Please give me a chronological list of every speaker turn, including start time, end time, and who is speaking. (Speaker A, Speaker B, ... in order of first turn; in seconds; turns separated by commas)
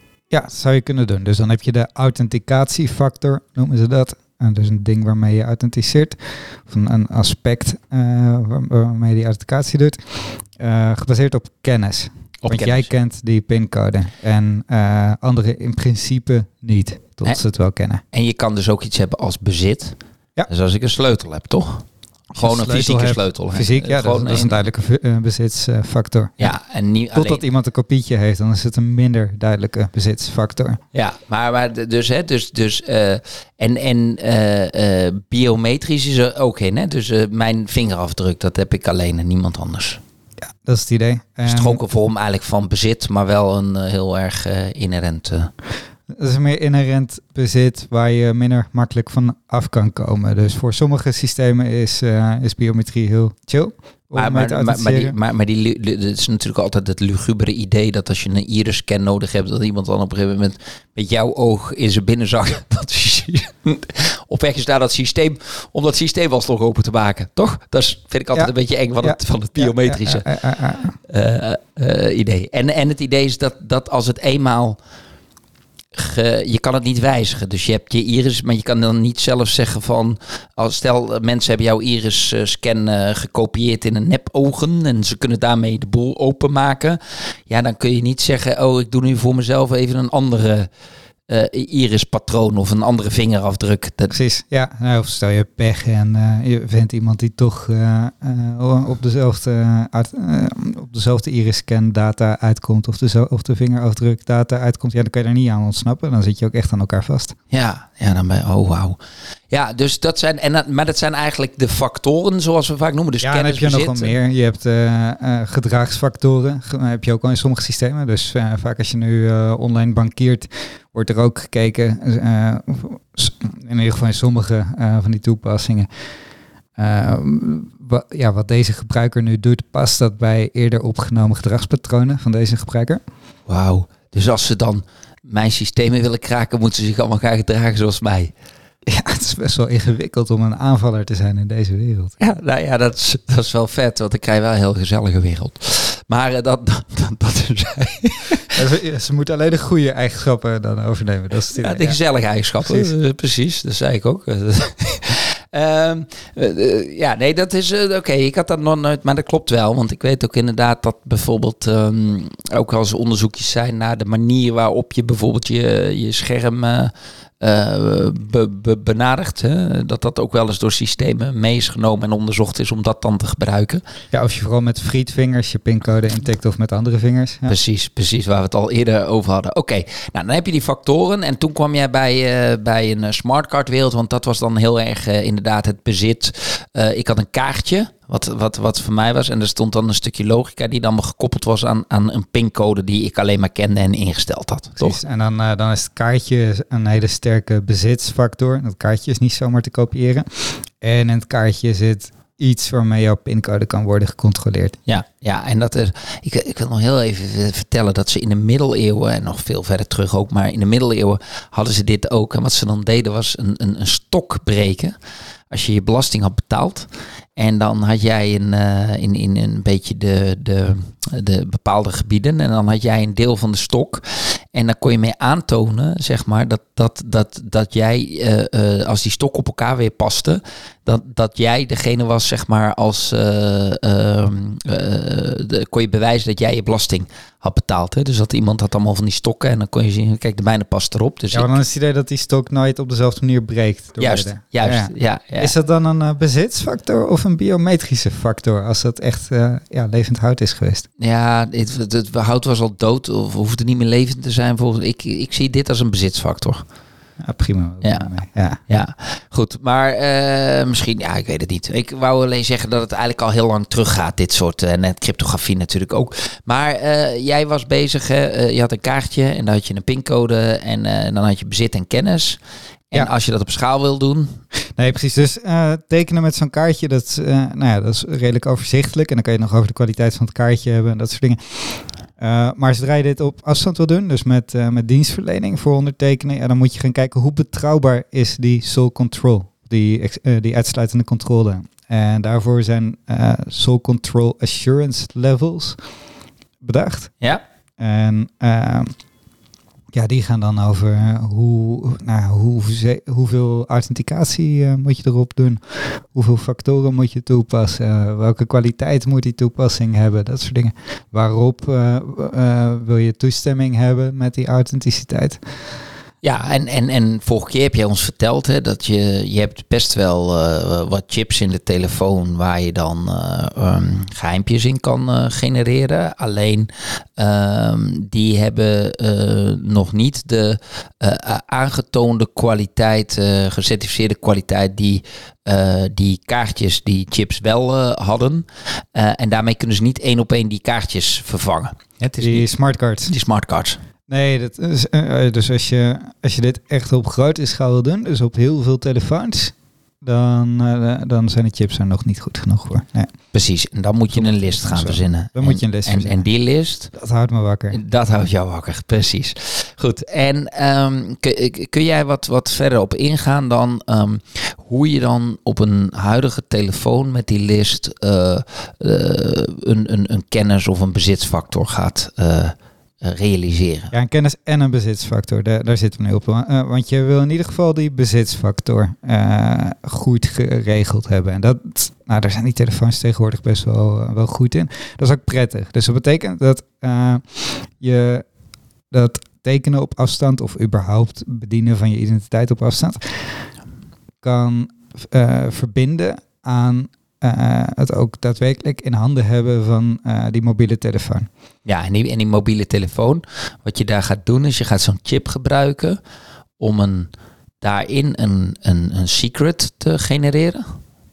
Speaker A: 0.3-18.0, Speaker B: 12.4-12.9, Speaker B: 18.1-20.0, Speaker B: 20.5-21.8, Speaker A: 22.4-26.6, Speaker B: 22.4-24.6, Speaker B: 26.4-27.4, Speaker A: 27.1-30.8, Speaker B: 30.9-40.0, Speaker A: 40.6-41.8, Speaker B: 41.5-45.5, Speaker A: 46.1-55.1, Speaker B: 54.1-70.3, Speaker A: 68.3-71.0, Speaker B: 71.1-74.8, Speaker B: 76.0-90.7, Speaker B: 91.3-94.2, Speaker A: 94.1-107.3, Speaker B: 107.5-109.0, Speaker B: 109.5-114.1, Speaker A: 113.2-125.9, Speaker A: 126.8-133.0, Speaker B: 133.5-138.3, Speaker A: 138.9-142.2, Speaker B: 142.2-148.6, Speaker A: 148.6-152.0, Speaker B: 151.6-173.8, Speaker A: 152.7-152.9, Speaker A: 174.1-177.5, Speaker B: 177.5-195.0, Speaker A: 194.8-204.8, Speaker B: 204.9-215.0, Speaker B: 215.5-241.6, Speaker A: 241.3-250.8, Speaker B: 244.0-245.5, Speaker B: 251.0-256.6, Speaker A: 257.2-258.6, Speaker B: 257.8-258.1, Speaker B: 258.7-272.4, Speaker B: 272.9-274.4, Speaker A: 274.8-295.8, Speaker A: 296.6-297.2, Speaker A: 297.8-298.9, Speaker A: 299.9-315.4, Speaker B: 316.2-342.5, Speaker A: 342.2-343.1, Speaker B: 343.1-343.8, Speaker A: 344.1-353.1, Speaker B: 353.3-356.9, Speaker A: 354.1-356.2, Speaker A: 356.9-357.8, Speaker B: 357.7-373.9, Speaker A: 373.9-388.2, Speaker A: 388.9-393.4, Speaker A: 394.2-401.3, Speaker B: 401.7-406.0, Speaker B: 406.6-407.1, Speaker B: 407.6-410.6